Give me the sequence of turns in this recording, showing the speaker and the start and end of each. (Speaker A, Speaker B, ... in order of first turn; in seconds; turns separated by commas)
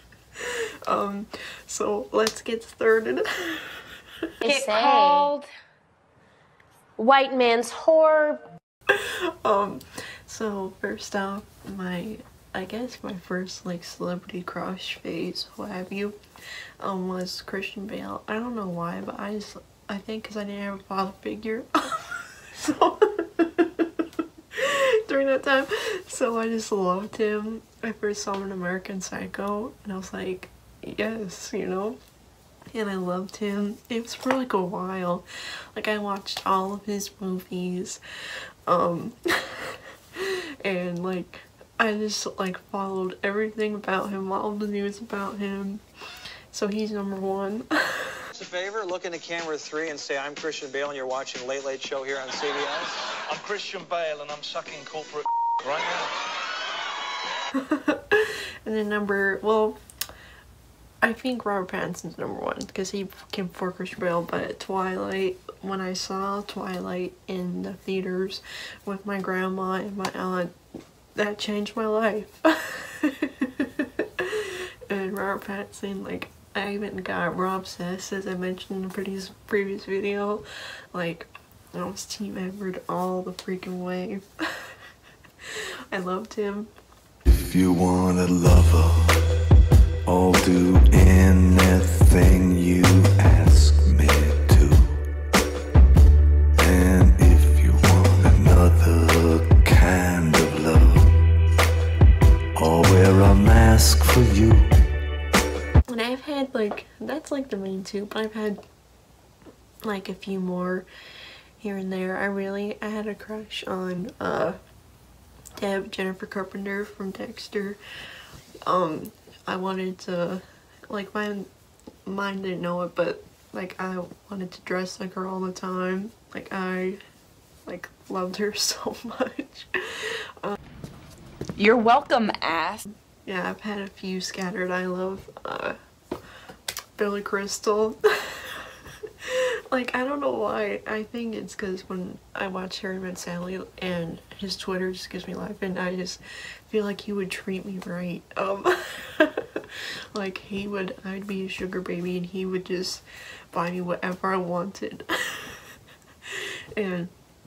Speaker A: 0.4-4.5, Speaker B: 4.4-5.5, Speaker C: 4.5-5.3, Speaker B: 7.0-8.4, Speaker A: 8.9-16.2, Speaker A: 16.8-24.0, Speaker A: 24.6-32.0, Speaker A: 32.7-38.0, Speaker A: 38.7-45.8, Speaker A: 46.5-48.3, Speaker D: 48.3-53.0, Speaker E: 53.3-56.1, Speaker A: 57.5-59.8, Speaker A: 61.0-70.5, Speaker A: 71.2-84.7, Speaker A: 85.9-86.7, Speaker F: 87.3-89.2, Speaker F: 90.1-95.0, Speaker F: 96.6-101.1, Speaker F: 102.6-104.7, Speaker A: 105.9-108.6, Speaker A: 109.8-110.9, Speaker A: 111.6-114.6, Speaker A: 115.6-117.8, Speaker A: 118.6-121.5, Speaker A: 122.1-127.0, Speaker A: 127.7-130.6, Speaker C: 131.6-132.8, Speaker A: 133.2-135.8, Speaker A: 137.0-155.7, Speaker A: 156.3-157.1